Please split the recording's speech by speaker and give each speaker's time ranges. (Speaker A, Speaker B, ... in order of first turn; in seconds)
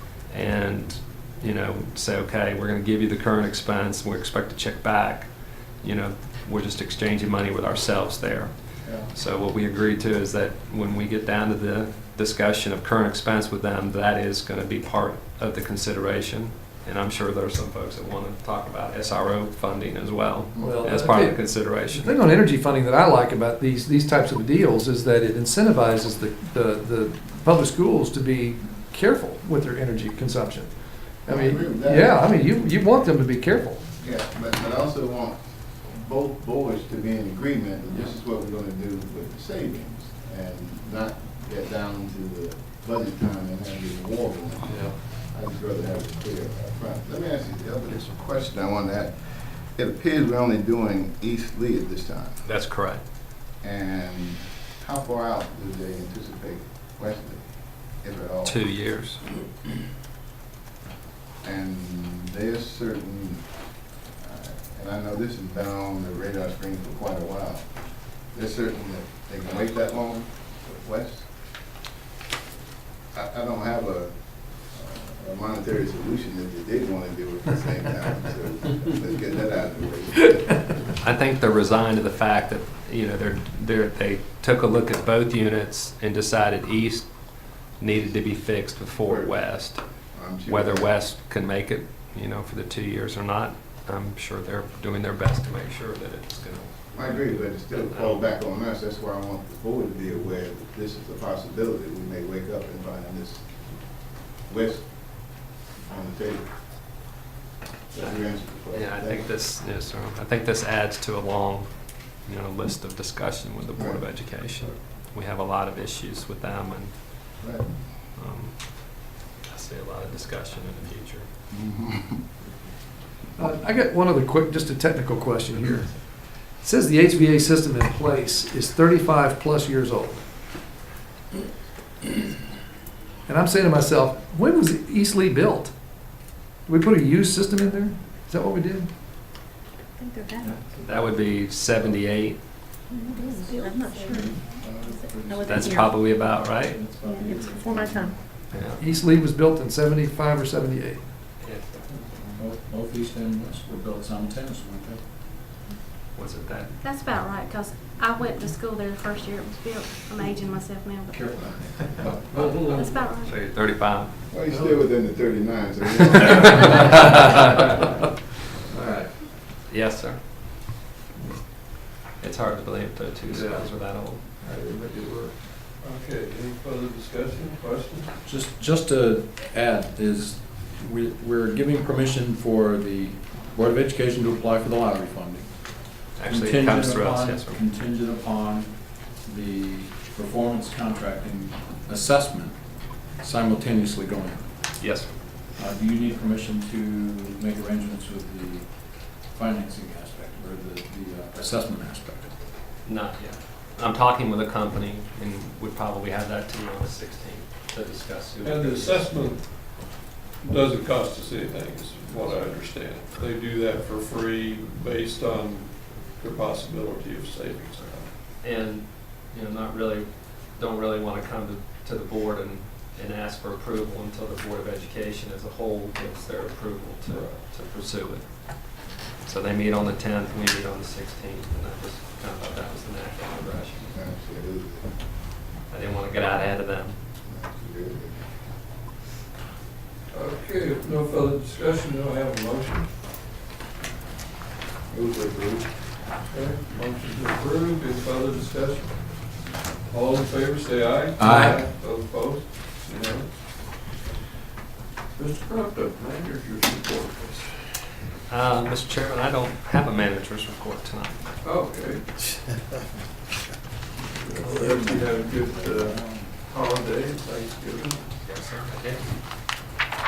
Speaker A: 0.3-5.3, 5.8-8.5, 9.1-22.2, 52.5-53.0, 58.5-59.2, 81.0-87.1, 87.8-89.8, 90.5-98.2, 108.0-117.0, 118.2-121.3, 140.7-142.4, 145.4-146.8, 148.5-148.8, 151.4-151.8, 156.2-156.8, 162.3-164.1, 166.1-167.5, 169.7-170.2, 172.2-174.2, 186.2-187.6, 194.8-195.1, 202.8-209.1, 218.4-233.9, 235.7-237.0, 258.3-261.2, 268.2-269.1
Speaker B: 8.8-9.1, 20.5-20.8, 31.3-32.2, 34.0-52.4, 53.6-57.4, 58.0-58.6, 61.4-63.5, 64.2-67.7, 68.2-71.3, 73.1-74.1, 74.7-80.4, 89.0-89.4, 90.1-90.9, 96.9-103.5, 104.5-104.9, 105.8-106.5, 107.9-109.3, 113.8-114.0, 117.4-117.7, 121.5-122.2, 144.6-145.4, 152.2-152.4, 164.3-167.0, 233.9-234.9, 237.3-238.2, 244.9-245.7, 264.4-266.4
Speaker C: 20.6-33.9, 123.4-130.2, 133.3-135.8, 136.7-138.9, 148.8-151.1, 174.4-175.3
Speaker D: 44.7-44.9, 162.3-162.9, 164.5-164.8, 173.3-178.1, 208.4-218.1, 227.1-227.4, 240.1-242.9, 246.3-254.0, 255.1-257.9, 261.4-262.1, 264.1-268.0
Speaker E: 140.0-140.6, 143.0-145.9, 147.2-148.2
Speaker F: 146.6-148.1, 152.3-155.0, 161.1-162.1, 168.7-169.1, 178.2-185.7, 186.2-194.5, 195.6-202.4, 251.2-251.6
Speaker G: 156.8-161.2, 162.8-163.3